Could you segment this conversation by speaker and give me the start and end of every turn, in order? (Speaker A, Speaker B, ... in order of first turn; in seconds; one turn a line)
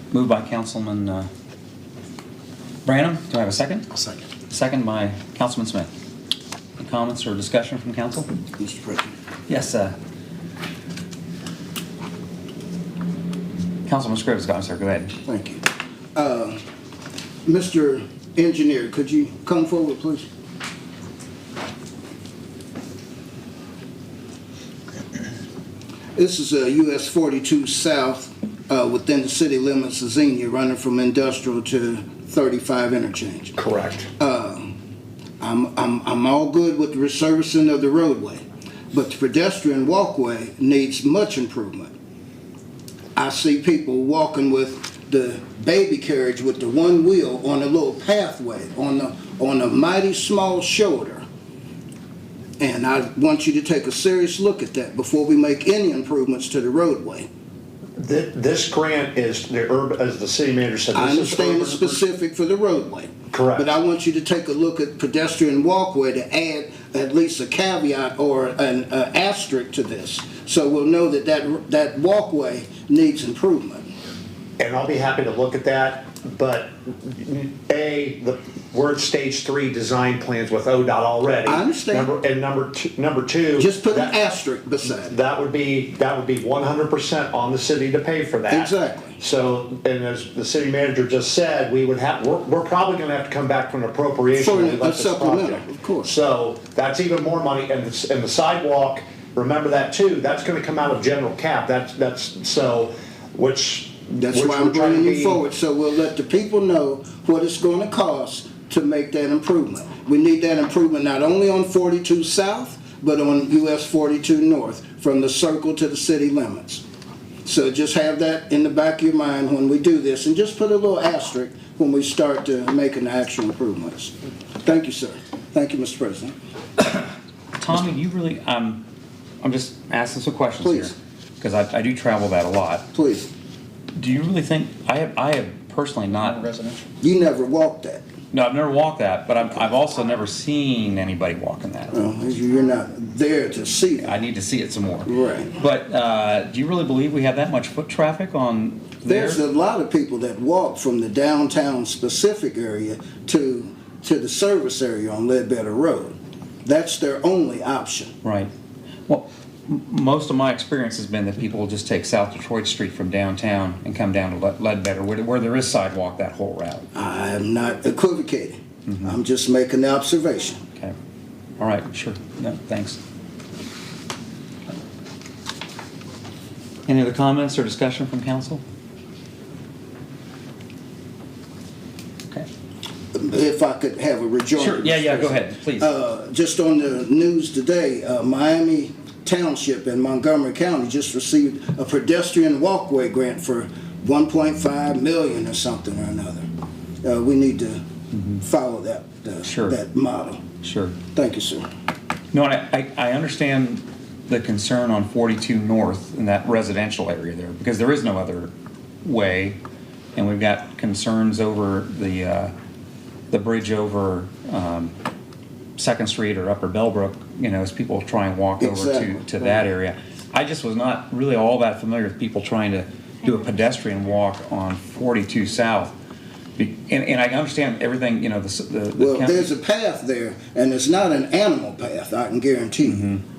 Speaker A: 0.1-1.3
Speaker A: 2.8-3.9
Speaker A: 4.5-5.9
Speaker A: 6.8-8.3
Speaker B: 8.6-9.2
Speaker A: 9.5-9.9
Speaker A: 13.8-15.1
Speaker B: 15.2-15.6
Speaker B: 16.1-16.6
Speaker B: 17.4-20.3
Speaker B: 26.1-33.6
Speaker C: 33.6-34.1
Speaker B: 34.2-34.7
Speaker B: 35.4-41.9
Speaker B: 43.1-51.2
Speaker B: 52.6-57.3
Speaker C: 58.0-62.0
Speaker B: 60.9-73.9
Speaker C: 63.3-63.7
Speaker C: 74.6-84.2
Speaker B: 81.4-82.1
Speaker B: 83.5-85.1
Speaker C: 84.9-105.4
Speaker B: 88.5-89.2
Speaker B: 94.3-96.1
Speaker B: 104.2-116.8
Speaker B: 117.4-126.3
Speaker A: 127.6-128.8
Speaker A: 129.4-132.9
Speaker B: 130.6-130.9
Speaker B: 132.9-133.3
Speaker A: 133.9-136.5
Speaker B: 137.0-138.0
Speaker A: 138.3-142.0
Speaker B: 141.9-144.1
Speaker A: 144.0-149.4
Speaker B: 145.1-145.5
Speaker B: 149.1-158.1
Speaker A: 158.2-158.5
Speaker A: 159.1-166.9
Speaker B: 166.9-170.6
Speaker A: 168.8-169.2
Speaker A: 171.6-173.0
Speaker A: 176.9-178.6
Speaker B: 183.1-196.5
Speaker A: 184.6-185.9
Speaker B: 197.0-197.8
Speaker B: 198.3-200.4
Speaker A: 199.4-199.8
Speaker A: 200.6-201.0
Speaker B: 201.1-201.7
Speaker A: 202.3-208.5
Speaker A: 209.0-209.6
Speaker A: 210.2-212.5
Speaker A: 213.3-214.9
Speaker A: 215.8-225.9
Speaker B: 218.6-219.3
Speaker A: 226.6-229.5
Speaker B: 229.0-233.0
Speaker A: 232.9-233.2